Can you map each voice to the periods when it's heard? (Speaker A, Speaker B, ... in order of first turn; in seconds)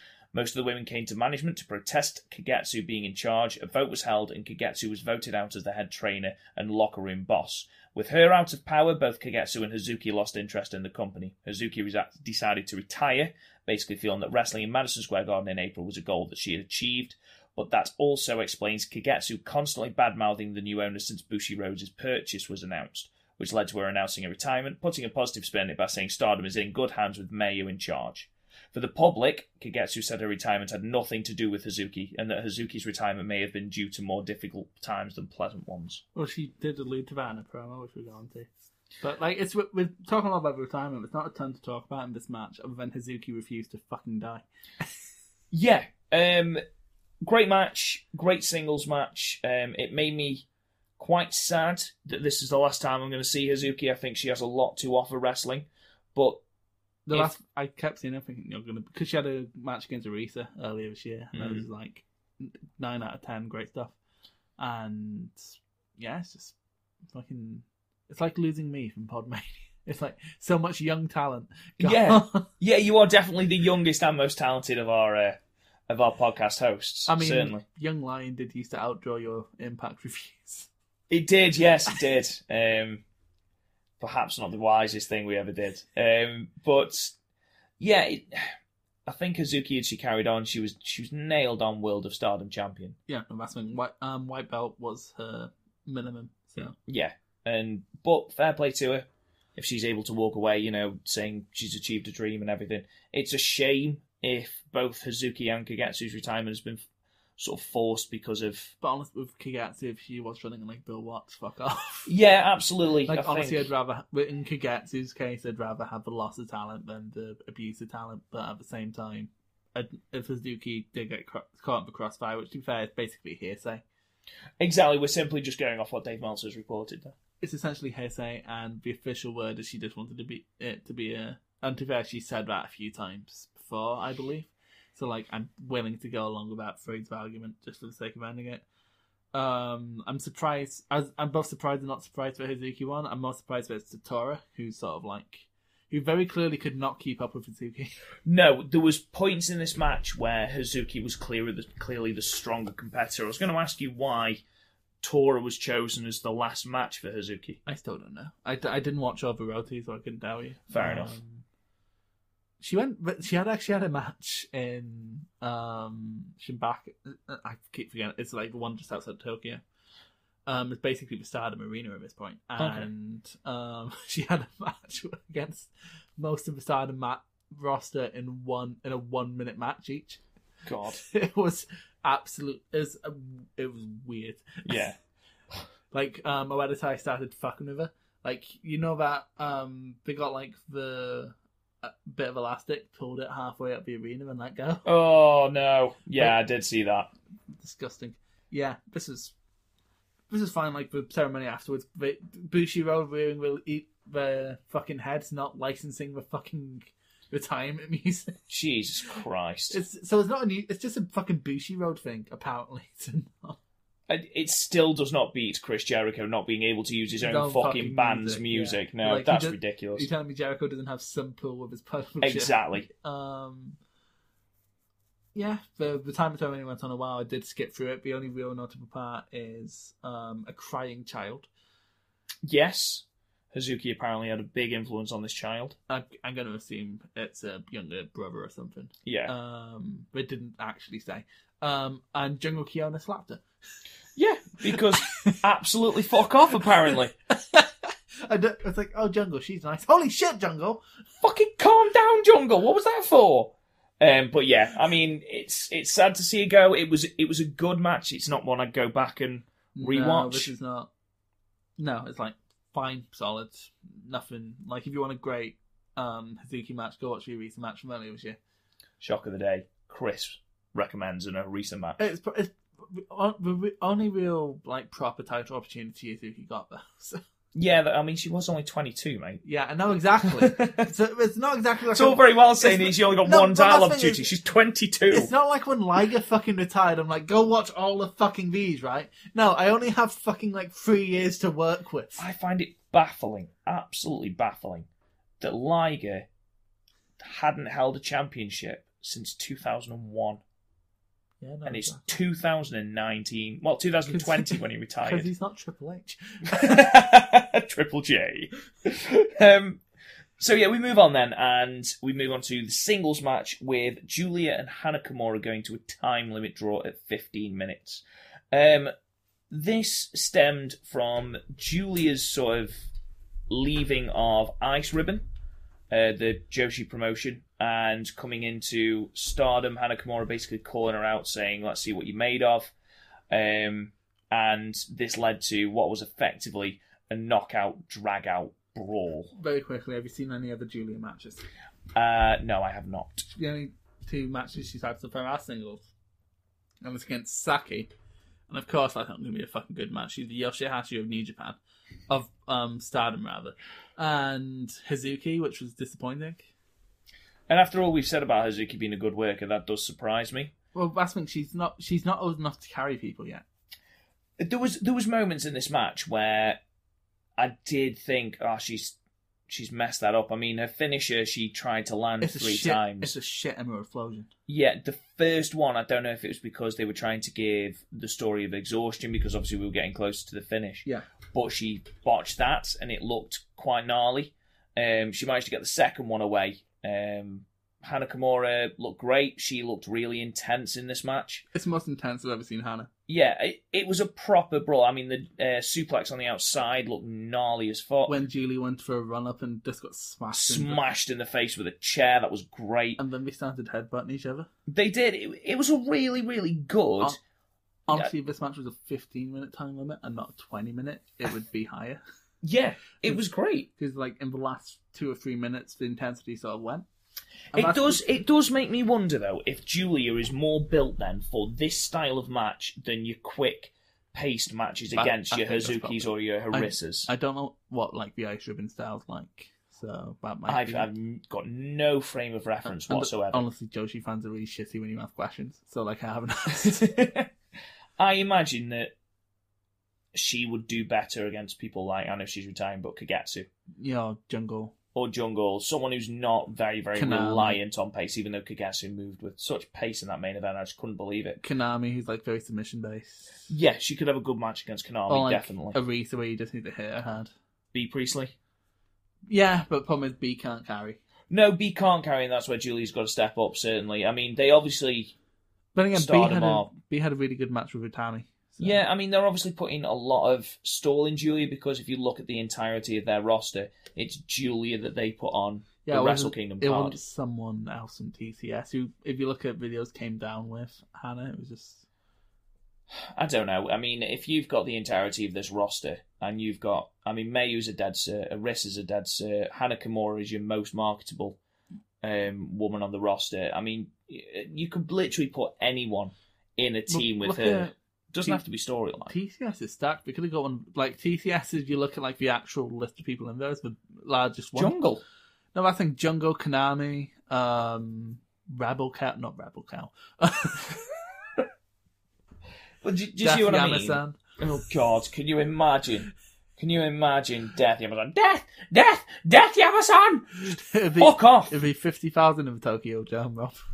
Speaker A: 0.3-36.0, 45.5-46.6, 47.2-50.5, 51.0-56.4, 61.3-61.6, 71.8-75.4, 75.9-77.6, 81.1-83.0, 84.0-87.1, 87.8-88.5, 89.0-93.0, 96.8-106.8, 107.4-108.7, 112.0-113.7, 124.6-127.1, 148.2-154.4, 155.0-157.6, 160.7-161.2, 172.6-172.9, 180.6-181.0, 184.7-184.9, 194.8-197.1, 208.5-209.8, 214.1-220.1, 222.2-222.9, 232.4-235.8, 239.0-239.3, 244.1-247.1, 251.2-260.5, 269.0-272.0, 277.5-279.4, 280.4-280.9, 281.9-285.3, 292.2-294.9, 295.4-296.2, 297.2-300.4, 301.6-305.3, 306.5-309.8, 310.4-318.9, 319.5-322.9, 323.5-325.2, 325.9-332.7, 333.3-339.3, 341.9-343.3, 357.5-360.5, 364.4-366.6, 367.4-368.9, 369.5-373.1, 374.5-391.4, 393.1-398.1, 400.3-403.0, 404.7-407.2, 412.4-413.7, 417.5-427.1, 430.5-433.4, 436.5-437.3, 438.0-438.9, 440.1-443.5, 444.9-451.4, 453.5-455.8, 457.7-458.3, 461.3-465.1, 465.9-466.7, 468.6-477.0, 482.9-491.4, 492.0-499.1, 504.5-505.0, 512.8-521.5
Speaker B: 36.1-38.5, 39.0-44.9, 57.1-64.0, 64.6-65.4, 66.0-66.5, 67.1-72.4, 77.1-80.7, 93.1-96.7, 108.8-112.1, 113.1-123.8, 127.4-138.6, 139.3-147.9, 157.7-161.4, 162.6-169.6, 170.4-180.2, 181.0-184.9, 185.9-194.8, 197.6-199.3, 200.3-208.4, 209.7-213.6, 217.2-223.8, 225.3-231.5, 235.9-243.4, 244.6-245.4, 247.3-250.8, 259.7-260.9, 261.8-268.4, 272.0-277.2, 279.4-284.3, 285.1-292.2, 301.4-302.2, 304.1-306.9, 339.3-341.4, 343.3-345.9, 346.8-347.9, 348.5-356.5, 360.7-363.4, 372.2-374.3, 391.5-392.9, 398.1-400.8, 403.0-404.5, 407.9-412.0, 413.8-416.9, 417.5-418.0, 424.9-430.9, 432.7-436.8, 443.8-444.7, 446.9-447.6, 451.4-453.5, 455.1-457.3, 459.3-461.0, 465.7-468.8, 475.8-481.9, 496.9-498.4, 499.1-504.7, 505.5-510.8, 513.2-514.2, 520.5-523.6